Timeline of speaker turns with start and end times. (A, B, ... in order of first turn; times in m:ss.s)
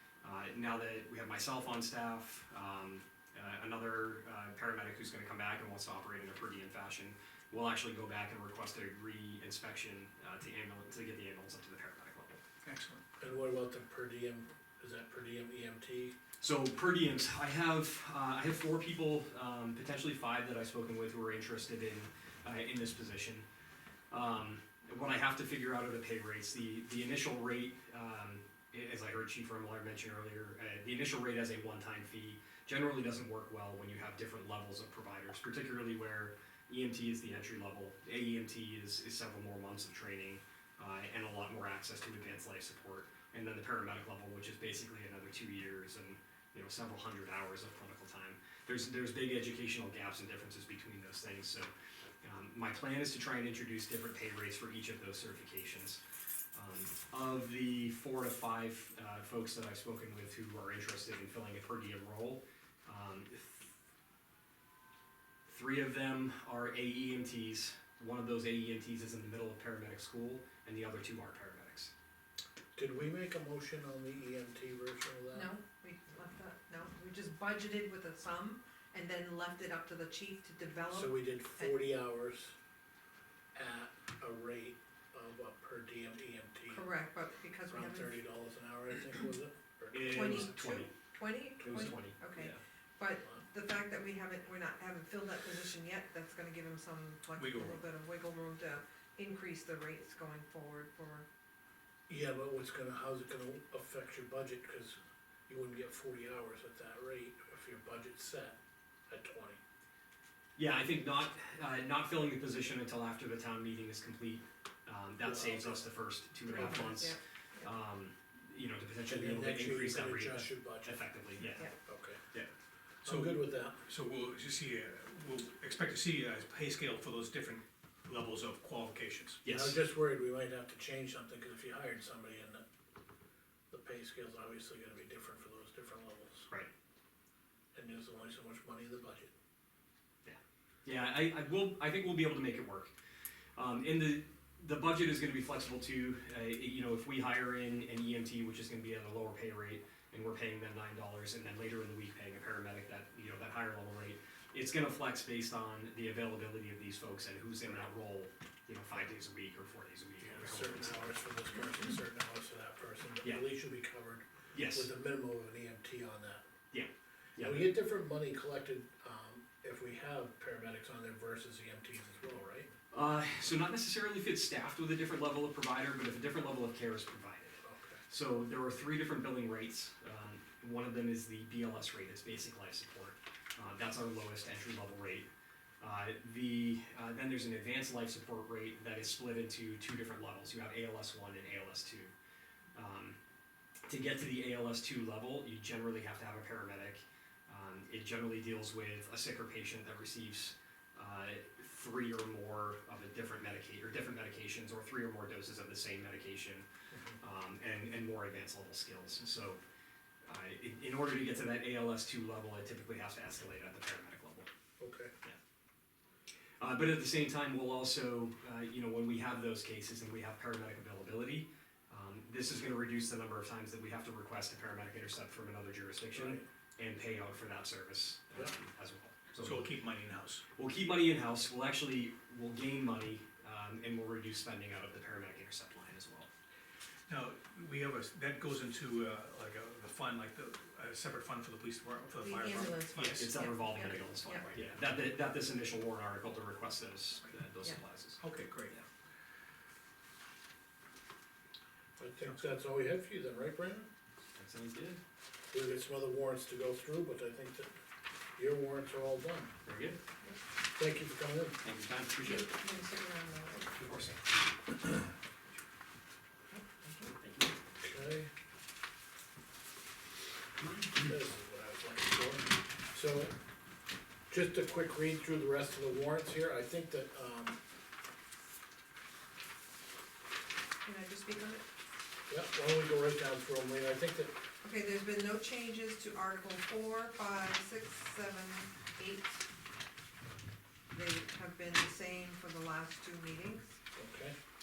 0:00.2-0:12.4 A
0:12.6-0:13.0 B
0:13.2-0:16.1 C
0:16.4-0:23.4 A
0:24.1-0:51.7 A
0:52.2-0:56.0 A
0:56.5-1:03.7 A
1:05.4-1:11.9 A
1:12.7-1:15.5 C
1:15.3-1:21.7 D
1:20.9-1:22.5 C
1:23.5-1:26.9 C
1:26.7-1:28.2 D
1:27.7-1:30.6 C
1:29.9-1:30.9 A
1:30.1-1:41.2 D
1:31.6-1:32.6 A
1:31.6-1:32.0 C
1:37.3-1:37.8 B
1:42.1-1:45.0 C
1:45.5-1:48.6 C
1:49.1-1:49.6 C
1:50.6-2:01.7 A
1:55.2-1:55.9 C
1:56.5-1:57.7 D
1:56.5-1:56.8 C
1:59.0-2:01.0 C
2:01.8-2:02.2 C
2:03.0-2:03.8 C
2:03.0-2:09.4 B
2:09.4-2:09.8 A
2:09.4-2:12.6 C
2:13.7-2:16.5 C
2:17.7-2:19.3 C
2:20.2-2:22.9 A
2:23.6-2:41.2 A
2:40.2-2:46.4 C
2:44.5-2:44.9 A
2:46.7-2:47.7 A
2:47.4-2:52.7 C
2:52.9-3:05.3 A
2:57.6-2:58.0 C
3:05.8-3:12.1 A
3:12.7-3:13.2 A
3:13.9-3:26.6 A
3:27.2-3:29.6 A
3:30.2-3:34.5 A
3:34.8-3:35.1 C
3:36.6-3:49.7 A
3:46.1-3:46.4 C
3:49.4-3:50.4 B
3:50.5-3:56.3 A
3:57.1-4:03.6 B
4:02.2-4:04.5 D
4:03.0-4:08.8 A
4:08.2-4:08.7 B
4:12.0-4:13.9 C
4:14.3-4:15.0 A
4:15.5-4:17.7 C
4:18.4-4:19.5 C
4:19.6-4:20.0 A
4:20.8-4:21.6 C
4:21.6-4:22.5 A
4:22.2-4:23.8 D
4:23.8-4:24.2 A
4:26.5-4:27.2 D
4:27.2-4:27.6 A
4:27.8-4:28.3 C
4:30.6-4:31.2 A
4:31.0-4:33.3 C
4:34.3-4:37.6 C
4:40.8-4:41.6 D
4:42.3-4:44.3 C
4:44.6-4:49.5 D
4:50.9-4:53.6 D
4:53.9-4:54.4 C